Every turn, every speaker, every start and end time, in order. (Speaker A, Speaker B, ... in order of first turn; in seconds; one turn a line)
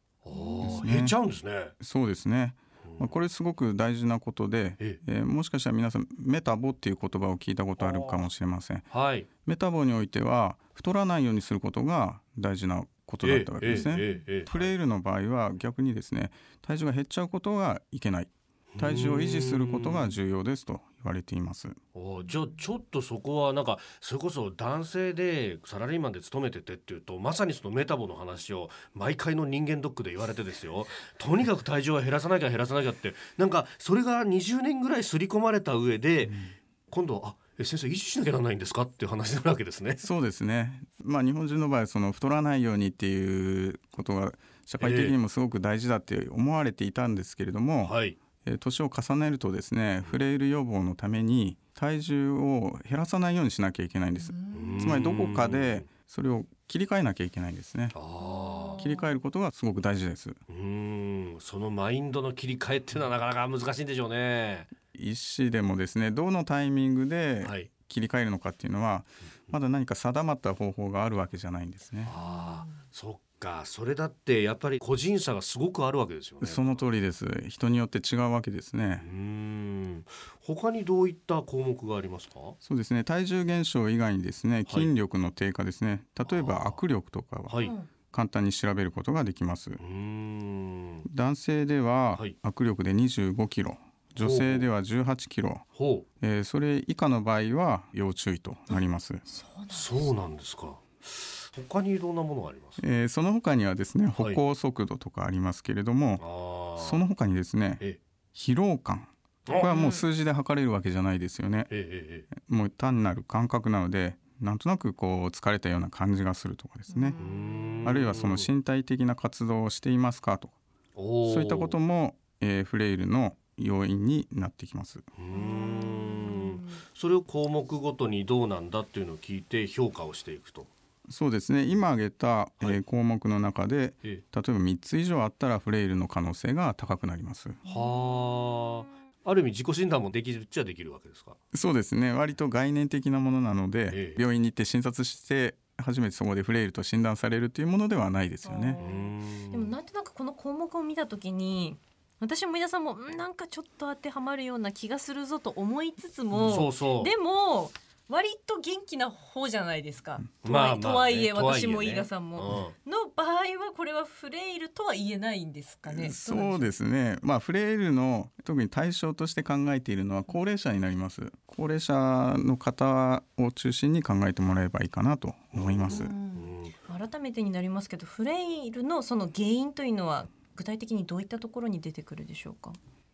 Speaker A: 0.2-1.7
Speaker B: 0.3-0.7
Speaker C: 0.6-1.1
Speaker C: 1.8-8.9
Speaker A: 2.8-3.2
Speaker A: 7.8-8.3
Speaker A: 8.9-9.3
Speaker C: 9.4-21.8
Speaker A: 13.2-14.7
Speaker A: 18.7-20.1
Speaker A: 21.9-40.0
Speaker C: 36.2-36.5
Speaker C: 40.0-58.0
Speaker A: 44.8-45.1
Speaker A: 47.8-48.2
Speaker B: 54.2-54.9
Speaker A: 54.5-55.9
Speaker A: 57.9-58.8
Speaker B: 58.2-59.1
Speaker C: 58.8-60.4
Speaker A: 60.5-64.7
Speaker C: 64.9-72.1
Speaker A: 67.4-67.7
Speaker A: 72.0-76.8
Speaker B: 72.2-72.7
Speaker C: 76.4-79.0
Speaker A: 79.0-82.6
Speaker C: 82.6-89.8
Speaker A: 84.7-84.9
Speaker A: 86.2-86.8
Speaker A: 87.5-87.7
Speaker B: 87.6-87.9
Speaker A: 89.8-91.1
Speaker C: 91.1-95.6
Speaker A: 94.2-94.7
Speaker A: 95.7-96.0
Speaker C: 96.2-99.2
Speaker B: 98.7-100.1
Speaker A: 99.7-102.8
Speaker C: 102.8-106.2
Speaker A: 104.1-104.4
Speaker A: 106.2-107.0
Speaker C: 106.8-111.7
Speaker B: 109.5-110.0
Speaker A: 111.7-112.3
Speaker C: 112.3-117.2
Speaker B: 116.9-117.8
Speaker A: 117.2-118.5
Speaker C: 117.8-120.5
Speaker A: 120.9-121.8
Speaker C: 121.2-125.1
Speaker A: 125.2-130.7
Speaker B: 125.3-126.8
Speaker C: 131.1-137.6
Speaker B: 137.6-137.9
Speaker A: 137.6-141.4
Speaker C: 141.5-148.8
Speaker A: 143.9-144.2
Speaker B: 148.4-166.7
Speaker A: 148.8-149.7
Speaker A: 156.3-157.1
Speaker A: 160.4-162.7
Speaker C: 165.8-176.1
Speaker A: 175.5-176.8
Speaker B: 175.9-182.8